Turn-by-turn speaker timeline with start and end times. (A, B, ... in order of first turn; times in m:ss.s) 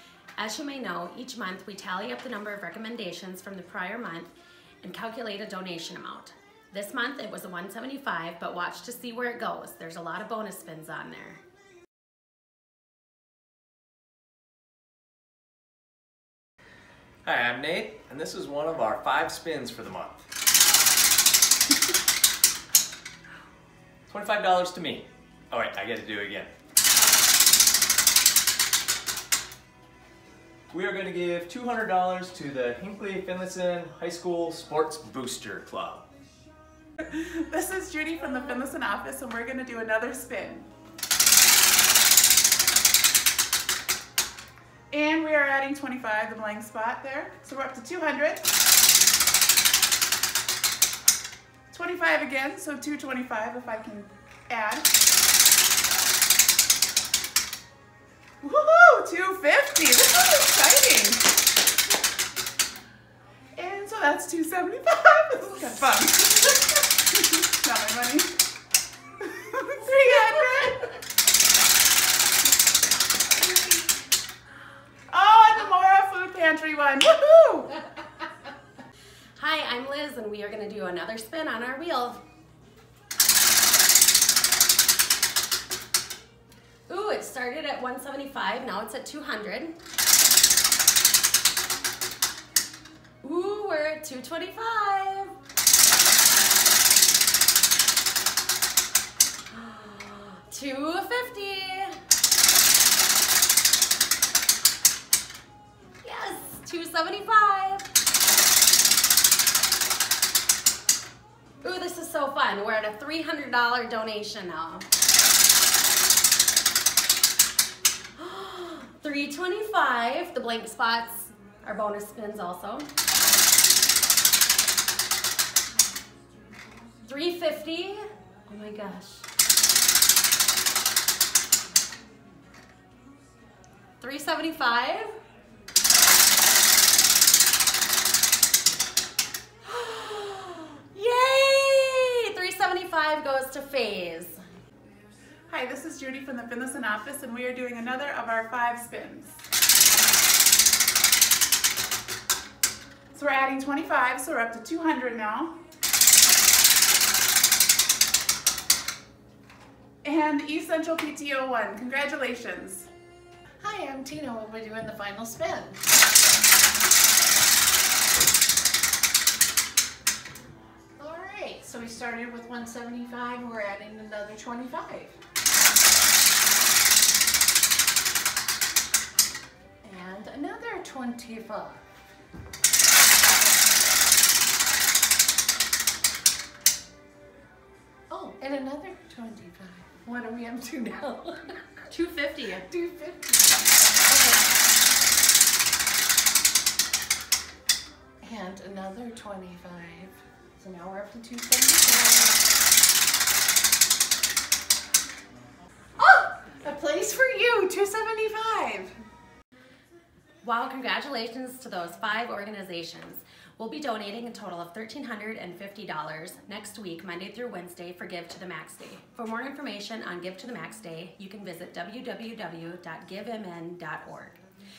0:00.4-0:11.4 A
0:17.2-0:20.2 B
0:24.1-0:26.5 B
0:30.7-0:36.0 B
0:37.0-0:40.7 C
0:44.9-0:48.5 C
0:51.7-0:54.9 C
0:58.4-1:01.3 C
1:03.5-1:08.3 C
1:09.2-1:11.0 C
1:15.1-1:17.8 C
1:19.4-1:22.2 A
1:26.9-1:29.8 A
1:33.2-1:35.4 A
1:39.5-1:42.0 A
1:46.0-1:47.9 A
1:51.6-1:54.9 A
1:58.2-2:02.9 A
2:07.0-2:09.3 A
2:14.0-2:15.2 A
2:19.7-2:24.4 A
2:25.5-2:29.4 C
2:33.1-2:35.5 C
2:40.0-2:42.9 C
2:43.6-2:45.8 D
2:51.0-2:55.2 D
2:59.8-3:01.9 D
3:08.1-3:11.6 D
3:11.9-3:12.7 A
3:12.6-3:13.6 D
3:14.1-3:14.4 D
3:18.2-3:22.4 D
3:26.0-3:28.9 D
3:30.4-3:44.4 A